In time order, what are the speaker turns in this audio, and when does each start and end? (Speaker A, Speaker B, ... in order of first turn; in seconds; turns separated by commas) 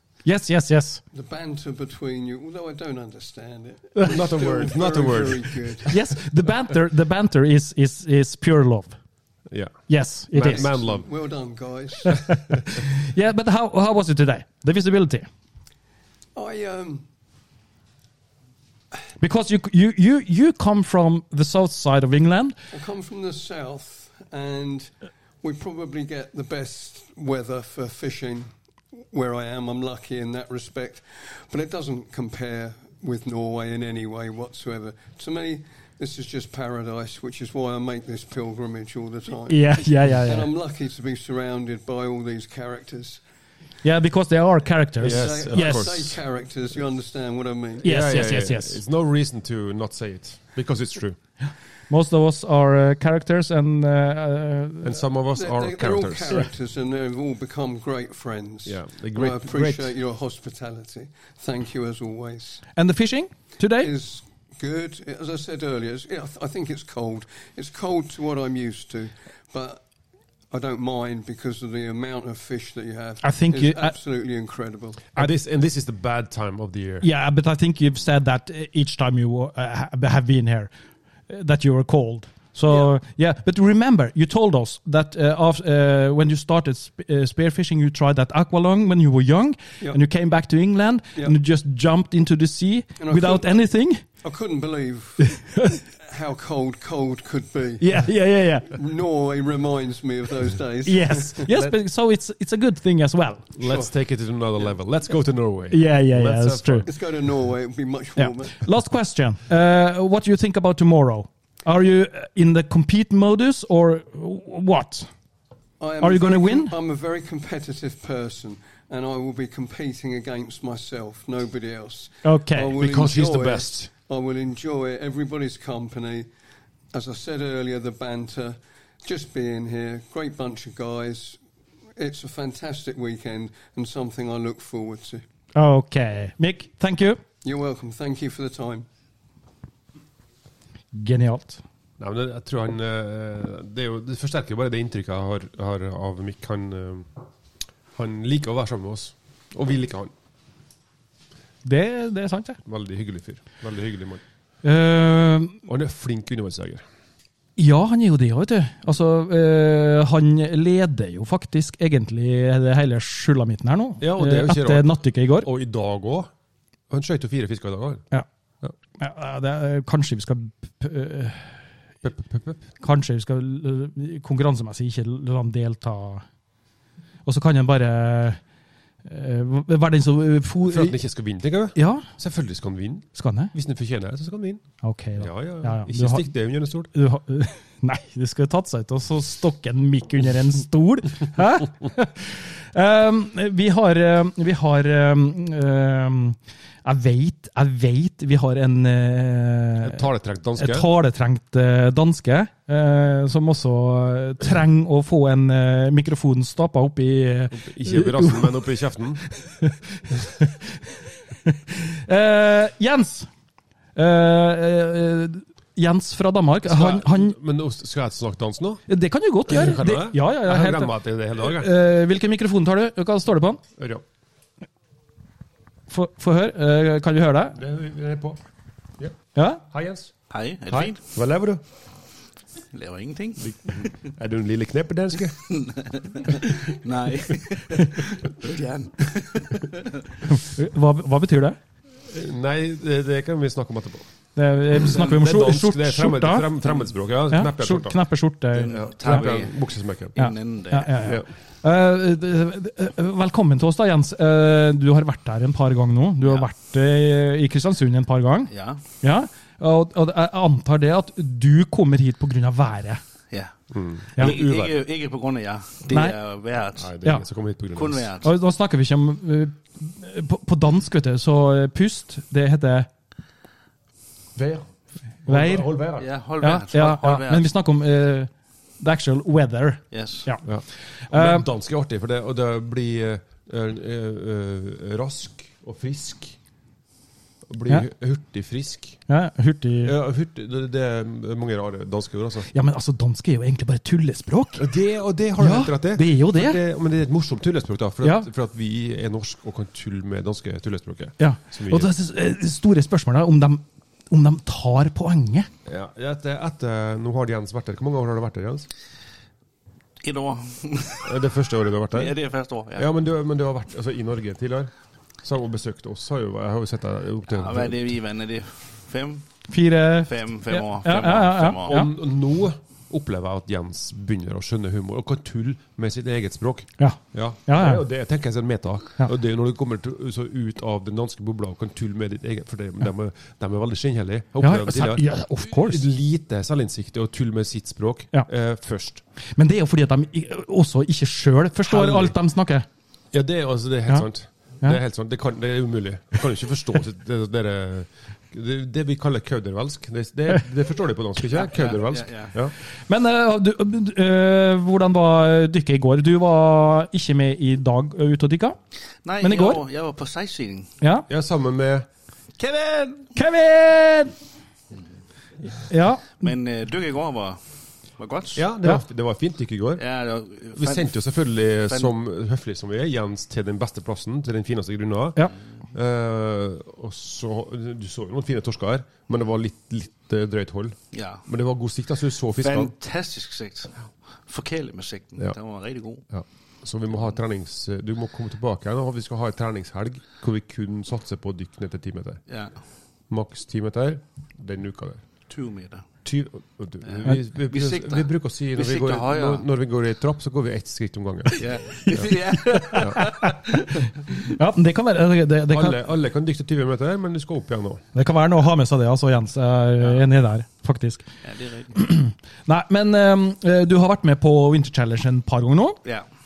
Speaker A: 0.2-1.0, Speaker B: 1.1-5.9, Speaker C: 4.0-5.9, Speaker A: 5.9-8.9, Speaker C: 9.5-11.1, Speaker A: 9.9-10.7, Speaker B: 10.5-12.2, Speaker A: 12.0-15.3, Speaker B: 16.3-17.0, Speaker A: 19.2-22.6, Speaker B: 22.7-28.5, Speaker B: 29.1-43.2, Speaker A: 39.5-40.5, Speaker A: 43.8-45.8, Speaker C: 45.0-46.2, Speaker B: 45.0-47.9, Speaker A: 47.8-48.8, Speaker C: 47.8-51.2, Speaker A: 51.4-55.0, Speaker C: 54.8-56.4, Speaker B: 55.3-62.6, Speaker C: 58.6-59.9, Speaker A: 62.8-63.9, Speaker B: 63.8-69.8, Speaker B: 70.5-75.0, Speaker A: 73.2-73.9, Speaker C: 75.2-77.0, Speaker A: 77.0-80.7, Speaker A: 81.3-94.0, Speaker B: 93.0-93.6, Speaker B: 94.2-95.3, Speaker A: 95.3-95.8, Speaker B: 96.0-98.1, Speaker A: 97.8-98.7, Speaker B: 98.7-101.5, Speaker A: 100.8-103.5, Speaker C: 103.5-106.9, Speaker B: 103.6-103.9, Speaker A: 105.7-106.9, Speaker B: 106.8-108.6, Speaker A: 108.2-115.1, Speaker B: 115.8-126.3, Speaker A: 116.0-116.7, Speaker A: 122.2-122.7, Speaker C: 122.7-123.9, Speaker B: 126.9-131.4, Speaker B: 131.9-135.2, Speaker A: 135.5-137.2, Speaker B: 137.4-138.9, Speaker A: 140.9-141.6, Speaker C: 142.0-147.1, Speaker C: 147.9-150.1, Speaker A: 151.6-152.6, Speaker C: 152.6-154.2, Speaker A: 154.6-155.6, Speaker C: 155.7-156.8, Speaker A: 157.6-165.5, Speaker C: 164.0-166.3, Speaker C: 166.9-168.1, Speaker A: 169.0-171.6, Speaker C: 172.0-172.6, Speaker A: 172.8-176.2, Speaker A: 177.2-178.4, Speaker A: 179.0-181.0, Speaker C: 180.7-184.6, Speaker A: 181.7-182.1, Speaker A: 183.1-183.5, Speaker A: 184.8-186.3, Speaker C: 185.2-186.9, Speaker A: 186.9-200.0, Speaker C: 199.8-200.9, Speaker A: 200.6-208.5, Speaker C: 207.5-209.2, Speaker A: 209.4-210.7, Speaker A: 211.4-213.3, Speaker A: 213.9-217.3, Speaker C: 216.6-218.8, Speaker A: 218.9-223.6, Speaker C: 219.4-221.7, Speaker C: 223.8-224.0, Speaker A: 225.9-227.6, Speaker C: 227.5-228.4, Speaker C: 229.0-230.1, Speaker A: 229.3-229.6, Speaker D: 230.3-231.0, Speaker C: 230.7-231.6, Speaker D: 232.7-234.0, Speaker C: 233.4-235.5, Speaker D: 235.5-239.9, Speaker A: 240.2-241.6, Speaker C: 242.1-244.1, Speaker A: 244.3-246.5, Speaker C: 244.7-248.0, Speaker A: 247.3-249.2, Speaker D: 248.5-249.5, Speaker C: 248.7-250.2, Speaker D: 250.1-251.0, Speaker A: 250.2-263.0, Speaker D: 256.2-256.5, Speaker D: 258.5-258.8, Speaker C: 263.7-264.8, Speaker D: 264.1-266.9, Speaker A: 265.9-266.1, Speaker C: 266.8-268.1, Speaker D: 267.7-268.3, Speaker A: 268.2-272.9, Speaker C: 274.3-274.6, Speaker C: 275.2-276.1, Speaker A: 275.2-275.7, Speaker D: 276.0-277.5, Speaker A: 276.4-280.4, Speaker D: 279.9-280.3, Speaker C: 280.4-286.4, Speaker A: 281.1-281.4, Speaker C: 287.5-289.0, Speaker A: 289.1-289.9, Speaker C: 289.8-292.5, Speaker A: 292.5-294.7, Speaker C: 294.6-301.9, Speaker A: 295.4-296.6, Speaker A: 301.2-305.5, Speaker C: 305.6-308.7, Speaker D: 310.0-311.2, Speaker C: 311.0-312.1, Speaker D: 311.9-312.9, Speaker C: 312.7-314.7, Speaker C: 315.2-317.9, Speaker D: 317.3-319.2, Speaker A: 319.5-321.9, Speaker D: 320.1-321.8, Speaker C: 321.6-339.0, Speaker A: 326.8-327.8, Speaker A: 334.4-335.8, Speaker A: 339.4-342.6, Speaker C: 341.7-342.1, Speaker C: 343.1-352.5, Speaker D: 351.3-352.3, Speaker A: 352.9-358.6, Speaker D: 359.0-360.7, Speaker A: 359.2-359.6, Speaker A: 360.8-361.1, Speaker C: 361.1-361.9, Speaker D: 362.4-363.1, Speaker A: 363.1-364.1, Speaker A: 365.6-366.3, Speaker D: 366.2-367.4, Speaker D: 368.0-368.4, Speaker C: 368.3-369.8, Speaker D: 369.8-370.9, Speaker C: 370.5-382.7, Speaker D: 380.9-381.2, Speaker D: 382.4-386.0, Speaker C: 386.1-392.2, Speaker D: 392.3-392.6, Speaker C: 393.1-395.0, Speaker D: 395.3-395.9, Speaker C: 396.0-402.1, Speaker D: 396.9-399.4, Speaker D: 401.4-403.6, Speaker A: 402.5-403.6, Speaker C: 402.7-403.0, Speaker A: 404.1-405.8, Speaker C: 405.5-407.8, Speaker A: 407.9-411.0, Speaker D: 409.8-410.1, Speaker D: 411.2-411.8, Speaker A: 411.7-415.8